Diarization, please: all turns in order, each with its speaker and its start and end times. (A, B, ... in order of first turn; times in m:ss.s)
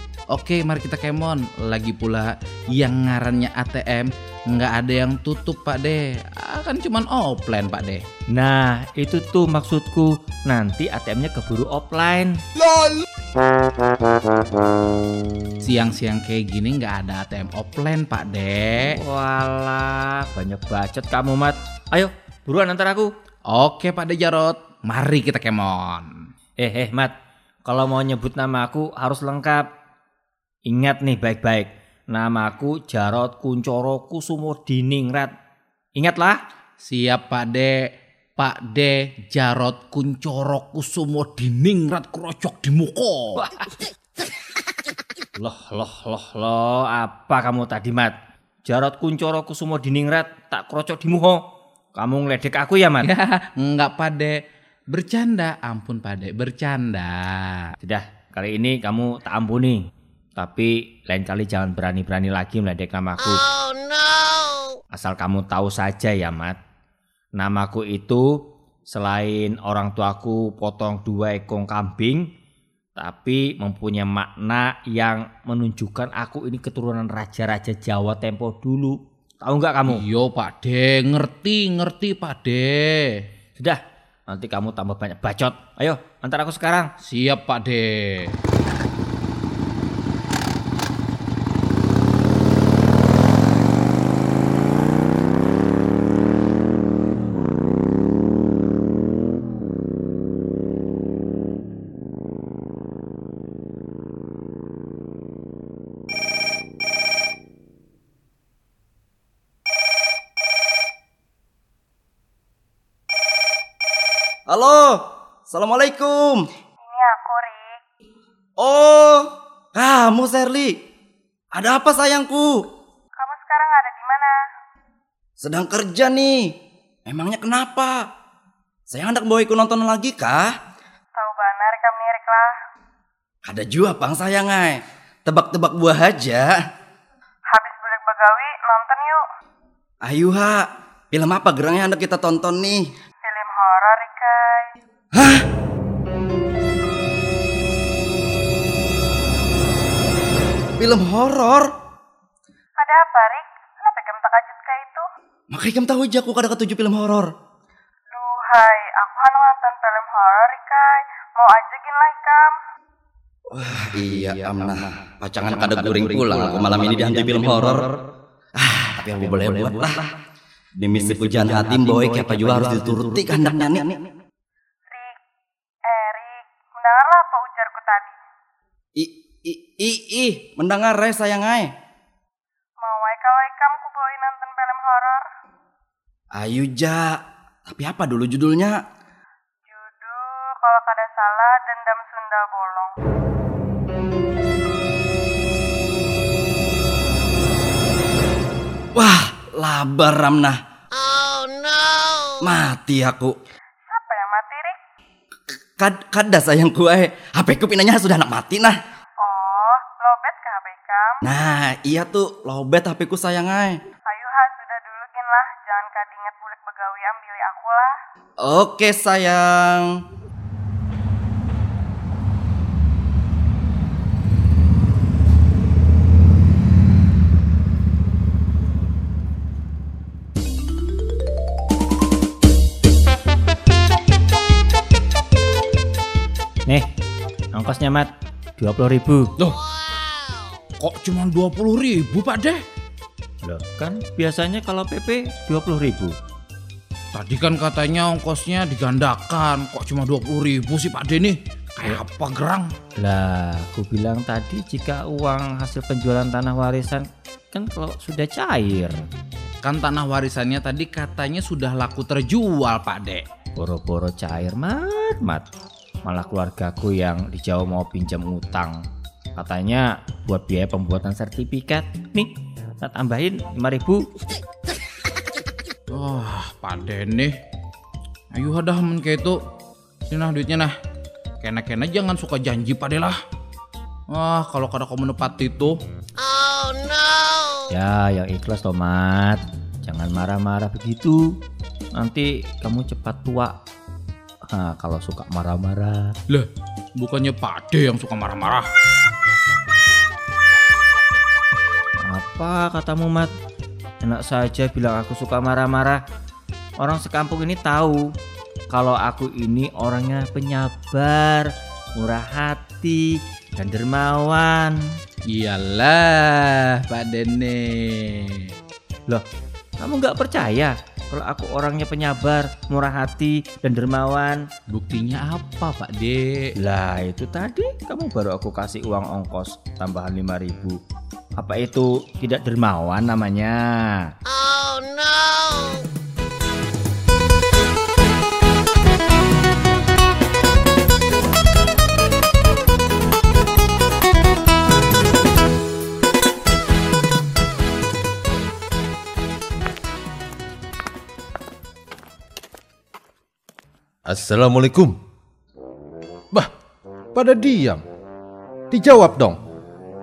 0:00.3-0:08.0 A
0:08.3-0:12.4 B
0:15.6-0:18.9 A
0:18.8-0:23.1 B
0:23.5-0:26.1 A
0:26.6-0:29.7 B
0:30.7-0:35.3 B
0:36.0-0:36.4 B
0:36.8-0:37.8 A
0:38.4-0:43.5 A
0:45.4-0:51.4 B
0:52.0-0:53.1 B
0:53.0-0:54.4 A
0:54.9-0:57.7 A
0:57.8-0:59.8 B
1:00.4-1:03.5 B
1:04.9-1:06.6 B
1:07.4-1:08.4 B
1:08.9-1:12.2 B
1:13.0-1:20.0 B
1:19.9-1:23.1 A
1:23.6-1:26.9 B
1:27.0-1:28.3 A
1:54.5-1:56.5 C
1:56.8-1:57.8 D
1:58.6-2:00.8 C
2:01.5-2:02.6 C
2:03.2-2:04.4 D
2:05.4-2:06.5 C
2:07.1-2:08.0 C
2:08.9-2:10.5 C
2:11.1-2:12.5 D
2:13.4-2:16.6 C
2:17.5-2:19.2 D
2:20.0-2:22.8 C
2:23.2-2:24.7 D
2:25.2-2:25.4 C
2:30.8-2:31.7 C
2:32.8-2:35.0 D
2:35.5-2:37.3 C
2:38.1-2:42.5 D
2:43.5-2:48.0 C
2:48.6-2:50.1 C
2:50.8-2:54.0 C
2:54.9-2:55.2 D
2:55.8-2:58.2 D
2:59.0-3:01.7 C
3:02.8-3:05.2 D
3:06.4-3:07.2 C
3:07.7-3:08.8 C
3:09.7-3:12.9 D
3:18.9-3:20.6 C
3:22.4-3:23.4 C
3:23.9-3:24.8 D
3:25.8-3:28.8 C
3:29.2-3:31.2 D
3:31.2-3:33.8 C
3:34.1-3:38.0 D
3:38.4-3:40.0 C
3:56.7-3:56.9 B
3:57.5-3:59.3 B
4:00.8-4:02.6 A
4:03.4-4:06.2 B
4:07.1-4:12.7 A
4:13.0-4:19.0 B
4:19.6-4:23.2 A
4:23.6-4:25.5 B
4:26.0-4:28.8 B
4:29.4-4:34.1 B
4:35.9-4:37.3 A
4:38.3-4:39.4 A
4:40.1-4:40.7 A
4:41.4-4:43.2 A
4:44.1-4:45.8 A
4:47.7-4:51.4 B
4:52.0-4:53.6 B
4:54.5-4:56.2 B
4:56.3-4:58.7 A
5:02.0-5:03.3 B
5:04.0-5:06.0 B
5:06.8-5:08.1 B
5:08.7-5:15.0 B
5:15.3-5:18.5 A
5:19.8-5:24.5 B
5:24.7-5:26.5 A
5:26.6-5:30.8 B
5:31.4-5:34.2 B
5:54.1-5:55.0 E
5:57.1-5:57.8 E
5:58.7-5:59.4 E